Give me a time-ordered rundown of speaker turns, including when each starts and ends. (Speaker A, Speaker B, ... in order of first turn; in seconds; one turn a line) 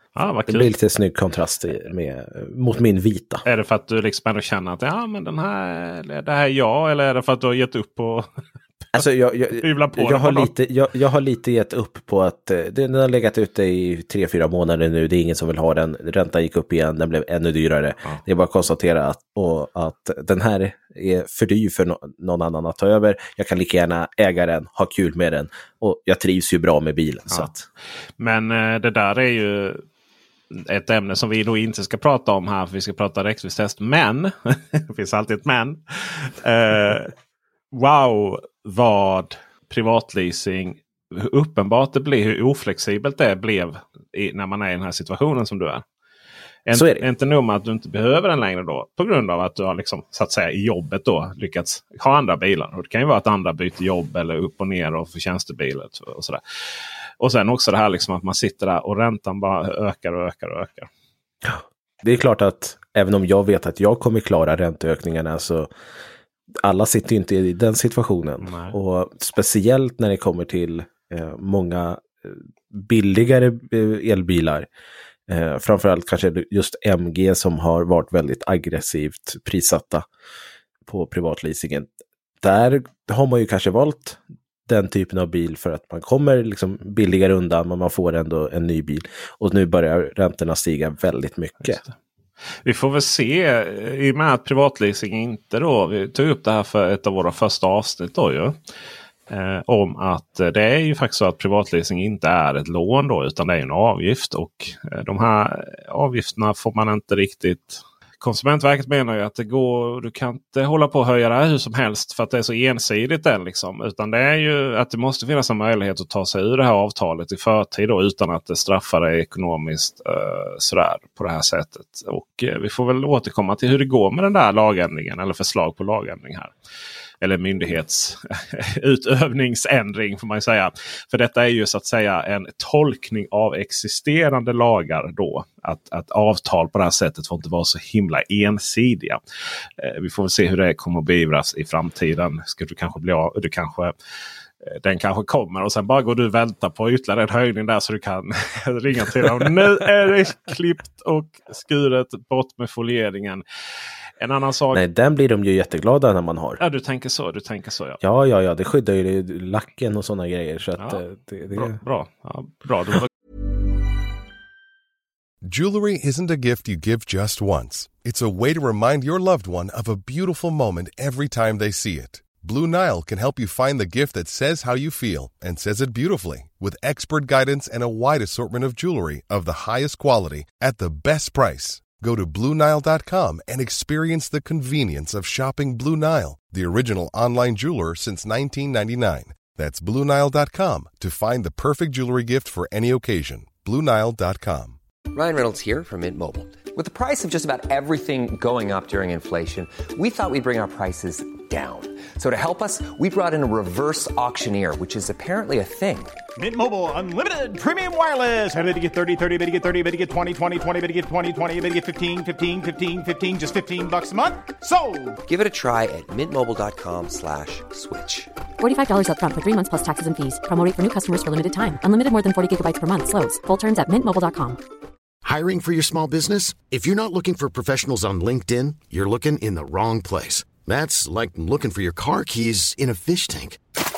Speaker A: 0.2-0.7
Speaker B: 0.5-3.4
Speaker A: 3.5-8.3
Speaker B: 8.9-27.6
Speaker A: 9.6-10.5
Speaker A: 28.2-29.8
Speaker A: 30.5-37.1
Speaker A: 37.7-45.8
Speaker A: 46.7-56.4
Speaker B: 46.7-47.0
Speaker A: 57.2-60.9
Speaker B: 61.4-65.7
Speaker B: 66.6-74.7
Speaker A: 68.4-68.8
Speaker B: 75.3-80.1
Speaker B: 80.9-81.9
Speaker B: 82.4-91.8
Speaker A: 91.7-91.9
Speaker A: 92.6-98.6
Speaker A: 99.3-126.5
Speaker A: 127.2-139.2
Speaker A: 139.8-143.9
Speaker A: 144.6-153.4
Speaker A: 154.2-154.8
Speaker B: 154.7-156.6
Speaker A: 156.6-158.0
Speaker B: 158.0-161.8
Speaker A: 160.8-163.1
Speaker C: 165.4-194.8
Speaker D: 195.1-206.2
Speaker E: 206.4-215.2
Speaker D: 215.2-218.3
Speaker F: 218.6-224.6
Speaker G: 225.2-233.6